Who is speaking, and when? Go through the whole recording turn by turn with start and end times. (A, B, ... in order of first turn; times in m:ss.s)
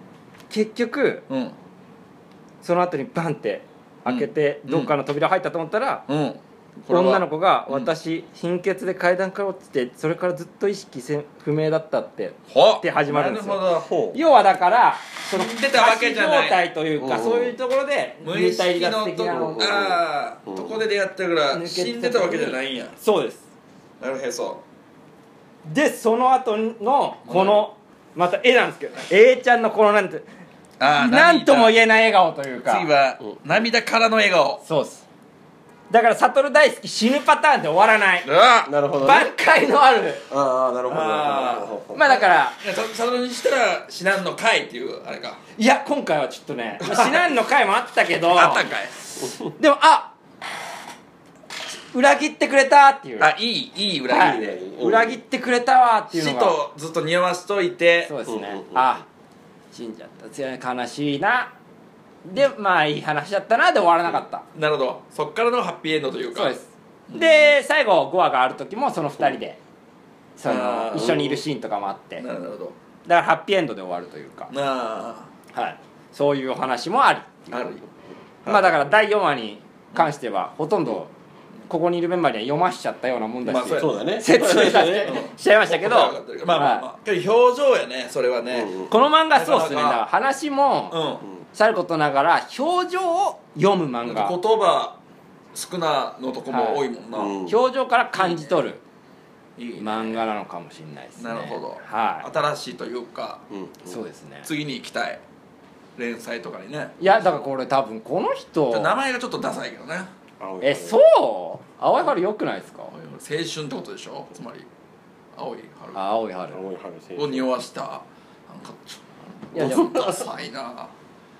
0:00.5-0:01.2 A
0:01.3-0:01.6 B
0:02.6-0:06.0 A
0:04.1-0:04.9 B
0:06.1-0:07.9 B
0:06.9-0:19.7 A
0:12.5-0:13.9 B
0:13.9-0:14.2 C
0:15.3-0:16.6 B
0:17.0-0:17.5 C
0:18.2-0:23.0 B
0:19.3-0:20.8 C
0:21.5-0:23.4 A
0:24.0-0:24.6 B
0:25.7-0:30.3 A
0:27.3-0:27.7 B
0:30.8-0:31.8 B
0:30.9-0:32.9 A
0:32.7-0:34.6 B
0:34.6-0:35.0 A
0:35.9-0:38.3 A
0:38.2-0:38.7 B
0:38.7-0:39.3 C
0:39.0-0:40.3 A
0:40.3-0:42.0 C
0:40.9-0:45.4 B
0:41.9-0:42.6 A
0:45.6-0:48.7 A
0:46.8-0:47.2 B
0:48.3-0:49.0 B
0:49.6-0:50.1 A
0:51.9-0:53.3 A
0:53.2-0:54.6 B
0:54.1-0:56.6 A
0:54.1-0:55.2 C
0:56.1-0:58.1 B
0:58.1-0:59.1 A
0:58.3-0:58.9 C
0:59.7-1:01.5 A
1:02.2-1:04.4 A
1:04.5-1:06.6 B
1:06.3-1:09.6 A
1:07.1-1:07.4 B
1:10.4-1:12.2 A
1:10.4-1:11.4 B
1:12.2-1:12.8 B
1:13.1-1:14.5 A
1:14.5-1:15.3 B
1:15.5-1:17.6 A
1:17.5-1:17.8 B
1:18.5-1:21.1 A
1:21.7-1:26.9 A
1:23.5-1:24.0 B
1:23.7-1:25.2 C
1:25.0-1:30.0 B
1:28.5-1:28.9 C
1:28.9-1:31.0 A
1:30.9-1:31.2 B
1:31.6-1:34.4 A
1:34.0-1:35.0 B
1:35.6-1:37.4 B
1:36.5-1:36.8 A
1:37.1-1:37.6 C
1:37.5-1:38.8 A
1:38.2-1:38.5 B
1:39.6-1:40.2 B
1:39.8-1:42.3 A
1:41.2-1:43.4 B
1:43.5-1:44.0 C
1:43.9-1:44.5 A
1:44.4-1:45.2 B
1:46.0-1:47.0 B
1:47.0-1:49.0 A
1:48.7-1:50.1 B
1:50.4-1:51.0 C
1:50.6-1:52.9 A
1:52.9-1:54.7 B
1:55.4-1:56.0 B
1:56.0-1:56.6 A
1:56.5-1:57.5 C
1:57.2-2:00.9 B
1:59.5-1:59.9 A
1:59.6-2:00.2 C